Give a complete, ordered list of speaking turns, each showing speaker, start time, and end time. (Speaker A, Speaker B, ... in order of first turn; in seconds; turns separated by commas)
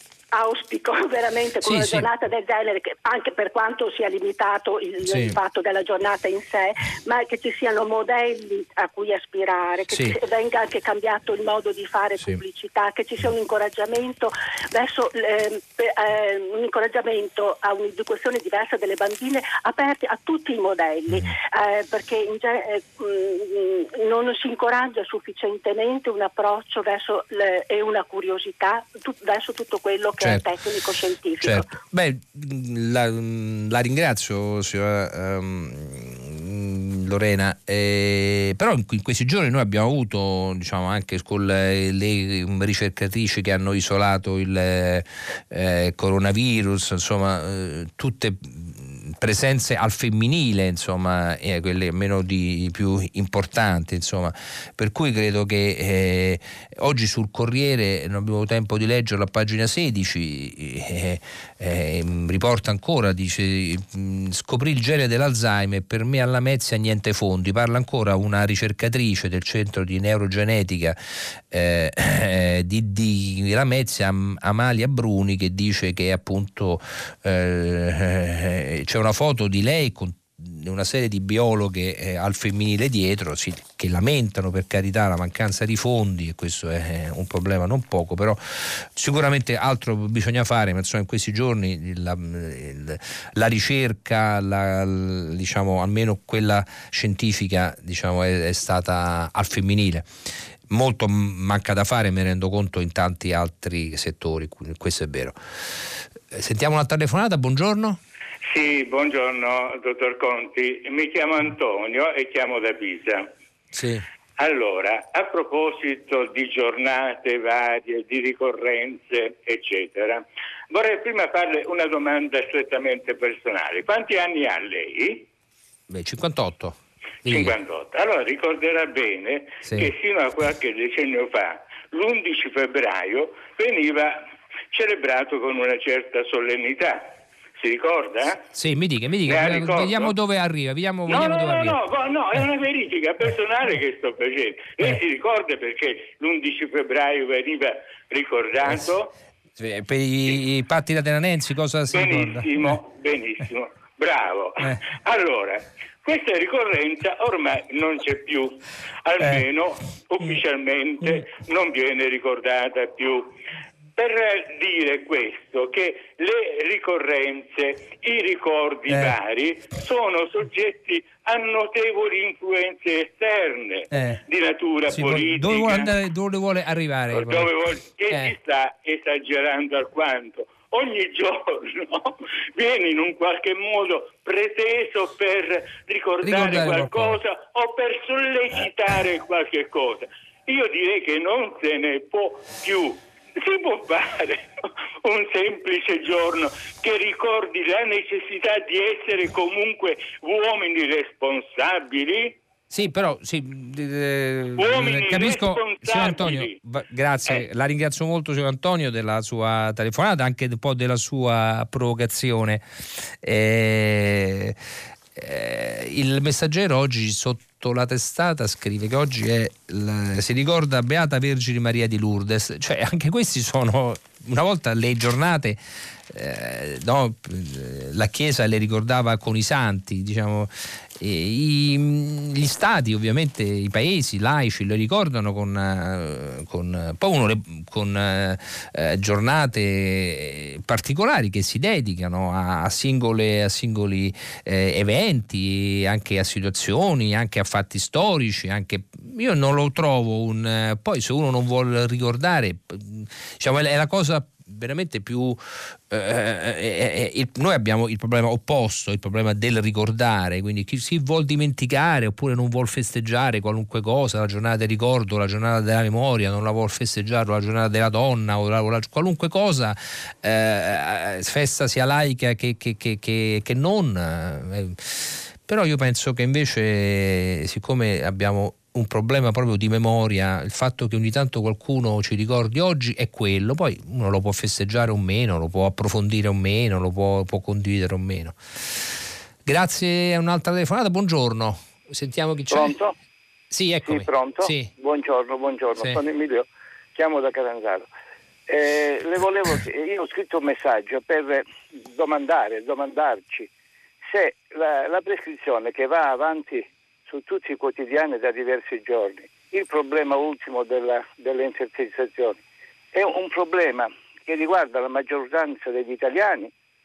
Speaker A: 0.3-31.7, Speaker B: 1.6-2.1, Speaker B: 5.0-5.4, Speaker B: 9.9-10.2, Speaker B: 30.2-30.4, Speaker B: 31.4-71.0, Speaker B: 71.5-100.0, Speaker B: 100.7-108.0, Speaker C: 108.5-113.3, Speaker B: 113.7-114.0, Speaker C: 114.4-125.3, Speaker B: 125.9-127.6, Speaker C: 127.3-138.4, Speaker B: 129.6-129.9, Speaker B: 138.5-141.8, Speaker C: 139.3-140.1, Speaker C: 141.1-149.1, Speaker B: 149.6-152.7, Speaker C: 151.9-163.3, Speaker C: 163.9-175.9, Speaker B: 168.9-169.1, Speaker B: 173.9-174.2, Speaker B: 174.9-177.5, Speaker C: 177.1-194.5, Speaker B: 186.2-187.2, Speaker C: 195.0-202.4, Speaker B: 202.7-212.6, Speaker C: 204.6-206.6, Speaker B: 213.2-214.6, Speaker B: 215.1-225.6, Speaker B: 226.1-288.9, Speaker B: 289.4-292.8, Speaker D: 292.5-292.9, Speaker B: 293.5-294.7, Speaker D: 293.8-297.9, Speaker D: 298.5-303.5, Speaker D: 304.1-312.4, Speaker D: 312.9-316.5